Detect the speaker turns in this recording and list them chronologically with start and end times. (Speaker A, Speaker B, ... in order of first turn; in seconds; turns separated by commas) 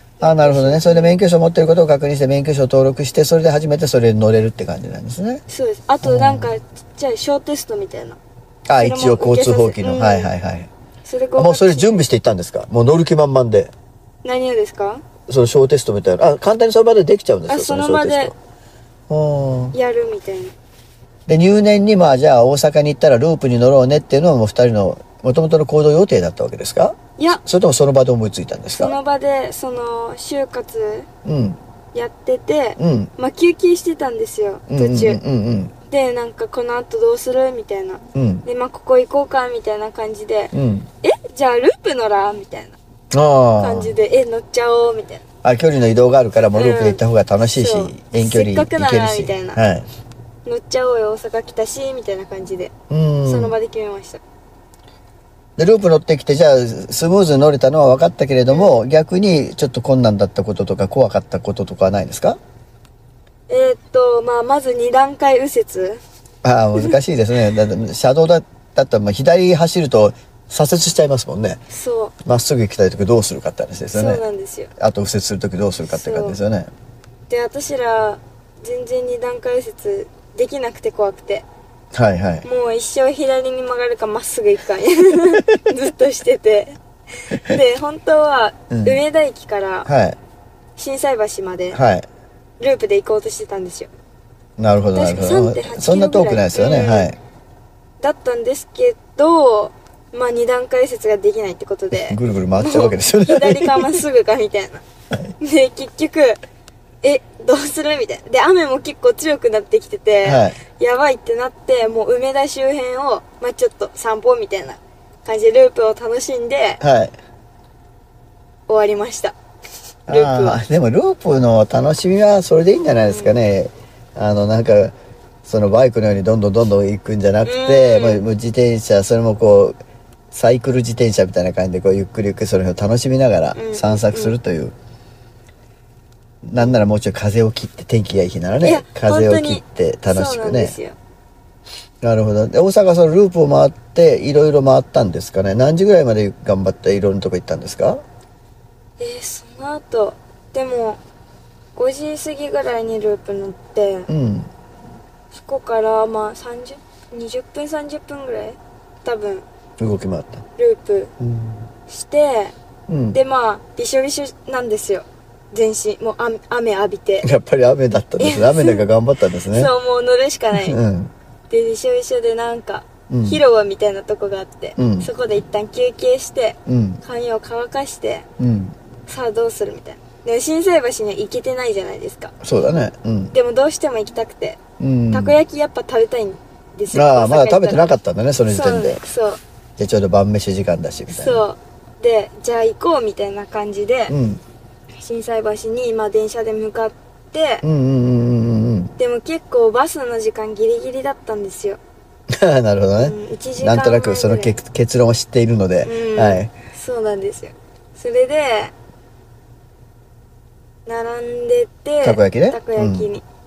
Speaker A: 0.2-1.2, Speaker B: 0.2-5.4, Speaker A: 5.5-8.2, Speaker B: 6.0-6.5, Speaker B: 8.7-10.7, Speaker A: 8.8-10.3, Speaker A: 11.0-12.1, Speaker B: 11.4-13.7, Speaker A: 14.2-15.0, Speaker B: 15.3-18.3, Speaker A: 17.5-18.3, Speaker B: 19.1-19.7, Speaker A: 19.7-20.5, Speaker B: 21.3-28.9, Speaker A: 27.2-27.4, Speaker A: 28.7-31.1, Speaker B: 31.2-31.6, Speaker A: 31.9-35.2, Speaker B: 32.8-33.1, Speaker B: 34.7-35.7, Speaker A: 35.9-42.8, Speaker B: 38.1-38.5, Speaker B: 40.5-40.9, Speaker B: 43.1-43.9, Speaker A: 43.6-45.2, Speaker B: 45.4-49.9, Speaker A: 46.5-49.6, Speaker A: 50.4-52.7, Speaker B: 52.9-53.5, Speaker A: 53.2-54.2, Speaker B: 55.6-62.4, Speaker A: 58.5-58.7, Speaker A: 63.5-66.0, Speaker B: 66.4-71.6, Speaker A: 71.7-72.1, Speaker B: 72.2-74.2, Speaker A: 73.9-74.7, Speaker B: 74.8-76.7, Speaker A: 75.9-76.4, Speaker A: 77.3-81.4, Speaker B: 81.9-82.4, Speaker A: 82.4-89.9, Speaker B: 88.7-89.0, Speaker B: 89.8-90.2, Speaker A: 90.8-91.8, Speaker B: 91.7-92.0, Speaker A: 92.6-93.9, Speaker B: 94.6-97.2, Speaker A: 95.0-97.1, Speaker A: 98.0-104.8, Speaker B: 101.9-104.0, Speaker A: 105.4-106.4, Speaker A: 107.0-116.8, Speaker B: 110.2-110.6, Speaker B: 116.8-117.1, Speaker A: 118.7-119.3, Speaker A: 120.1-120.6, Speaker B: 120.1-124.9, Speaker A: 123.1-123.3, Speaker B: 125.4-129.8, Speaker A: 127.4-128.2, Speaker B: 130.3-134.7, Speaker A: 133.5-134.3, Speaker B: 136.4-140.8, Speaker A: 138.6-141.0, Speaker B: 142.0-148.0, Speaker A: 149.0-151.0, Speaker A: 151.8-154.1, Speaker B: 154.1-154.5, Speaker A: 155.3-159.4, Speaker B: 159.8-160.4, Speaker A: 160.6-161.1, Speaker B: 161.2-161.7, Speaker A: 161.9-162.5, Speaker B: 162.9-163.2, Speaker A: 163.1-167.3, Speaker B: 167.2-169.7, Speaker A: 168.2-168.8, Speaker A: 169.5-170.8, Speaker B: 170.6-171.1, Speaker A: 171.5-178.2, Speaker B: 173.1-173.4, Speaker B: 174.8-175.1, Speaker B: 176.7-177.0, Speaker B: 178.4-178.7, Speaker A: 179.1-182.3, Speaker B: 182.4-183.3, Speaker A: 183.3-184.6, Speaker B: 184.8-185.3, Speaker A: 185.1-187.9, Speaker B: 186.9-189.0, Speaker A: 188.4-189.4, Speaker B: 189.8-191.4, Speaker A: 191.1-194.1, Speaker B: 194.1-194.4, Speaker A: 195.0-197.6, Speaker B: 197.6-198.9, Speaker A: 199.0-201.8, Speaker B: 202.3-206.5, Speaker A: 203.0-204.6, Speaker A: 205.8-208.7, Speaker A: 210.8-213.2, Speaker B: 212.0-213.1